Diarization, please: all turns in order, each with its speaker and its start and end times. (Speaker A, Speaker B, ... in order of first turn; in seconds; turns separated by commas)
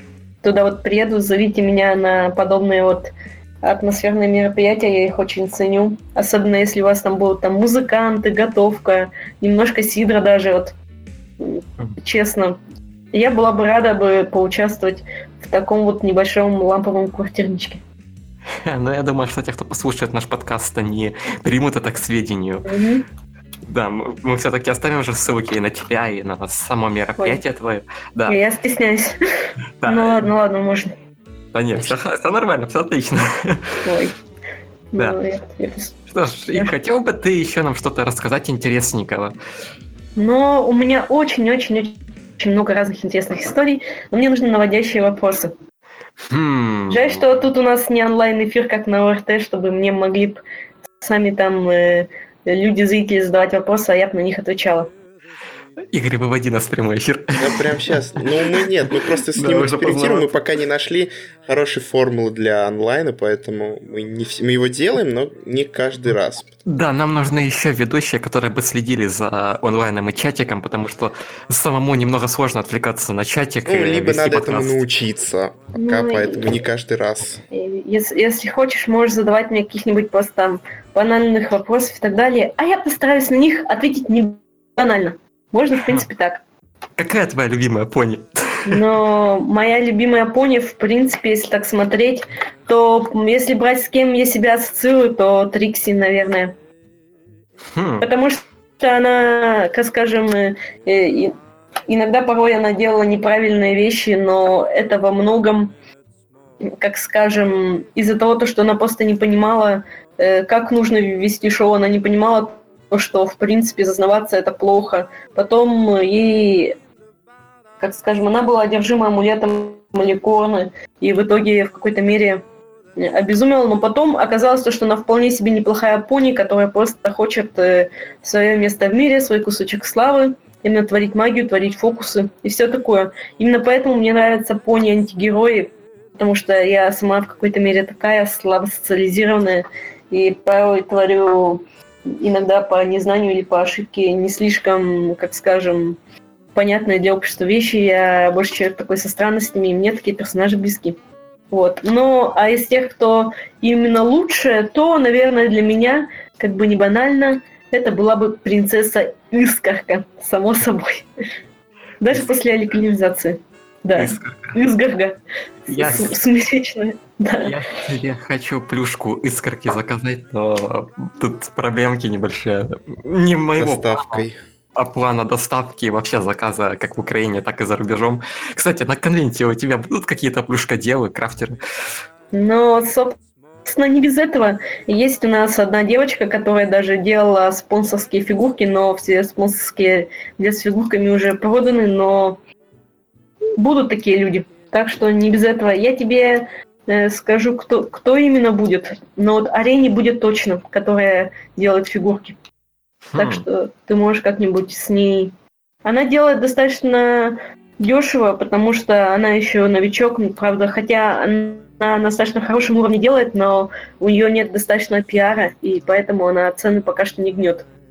Speaker A: 0.4-3.1, Speaker A: 3.6-10.8, Speaker A: 11.4-12.6, Speaker A: 13.1-17.8, Speaker B: 18.6-22.7, Speaker A: 22.7-23.1, Speaker B: 23.7-28.4, Speaker A: 28.3-30.9, Speaker B: 29.8-30.3, Speaker B: 31.5-33.8, Speaker A: 33.9-34.1, Speaker A: 34.9-36.0, Speaker B: 36.1-39.4, Speaker A: 40.2-45.5, Speaker B: 46.3-47.2, Speaker A: 46.9-50.4, Speaker A: 51.0-54.9, Speaker B: 55.9-58.7, Speaker C: 57.4-66.5, Speaker B: 59.3-60.3, Speaker B: 66.7-74.8, Speaker C: 73.7-77.4, Speaker A: 75.8-76.5, Speaker A: 77.5-86.4, Speaker B: 87.0-88.8, Speaker A: 88.7-96.5, Speaker B: 97.7-98.0, Speaker A: 98.0-101.3, Speaker A: 101.9-105.7, Speaker A: 106.6-116.8, Speaker A: 117.8-122.4, Speaker A: 123.0-146.0, Speaker A: 146.6-151.0, Speaker A: 151.5-161.1, Speaker A: 162.0-167.6, Speaker B: 163.9-164.6, Speaker B: 165.7-166.1, Speaker B: 167.4-174.2, Speaker C: 173.6-174.4, Speaker B: 174.8-181.6, Speaker A: 182.3-192.4, Speaker A: 193.6-202.4, Speaker B: 203.1-203.4, Speaker A: 203.2-205.3, Speaker A: 205.8-217.7